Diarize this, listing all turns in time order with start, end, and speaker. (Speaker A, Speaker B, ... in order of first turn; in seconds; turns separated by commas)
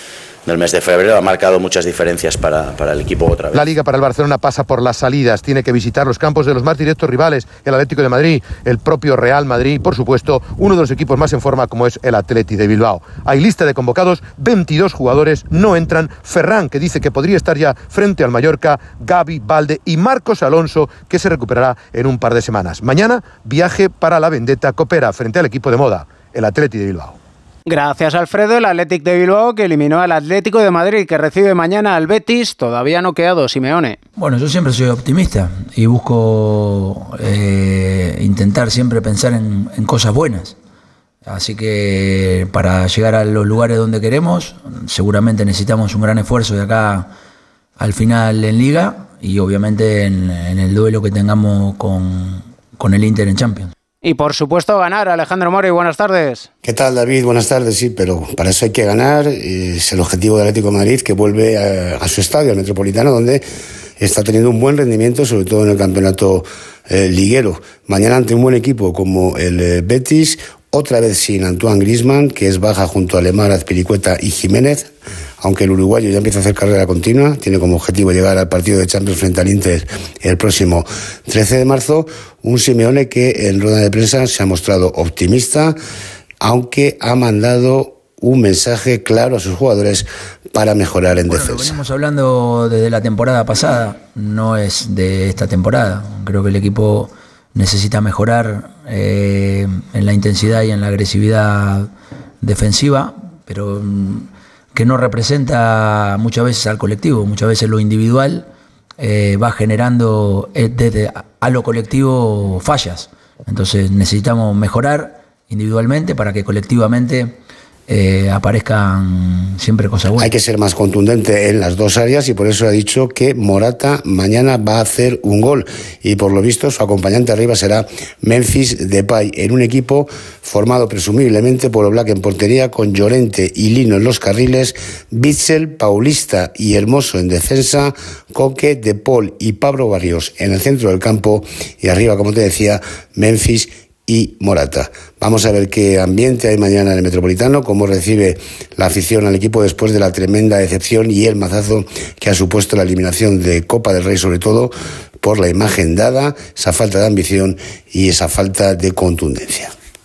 Speaker A: 0.5-3.7, Speaker B: 3.5-27.2, Speaker C: 27.7-34.0, Speaker D: 34.2-40.6, Speaker D: 41.2-47.1, Speaker D: 47.8-53.7, Speaker C: 54.0-56.5, Speaker E: 56.6-63.5, Speaker E: 64.0-85.8, Speaker E: 86.4-91.8, Speaker D: 91.4-120.3, Speaker E: 120.1-159.7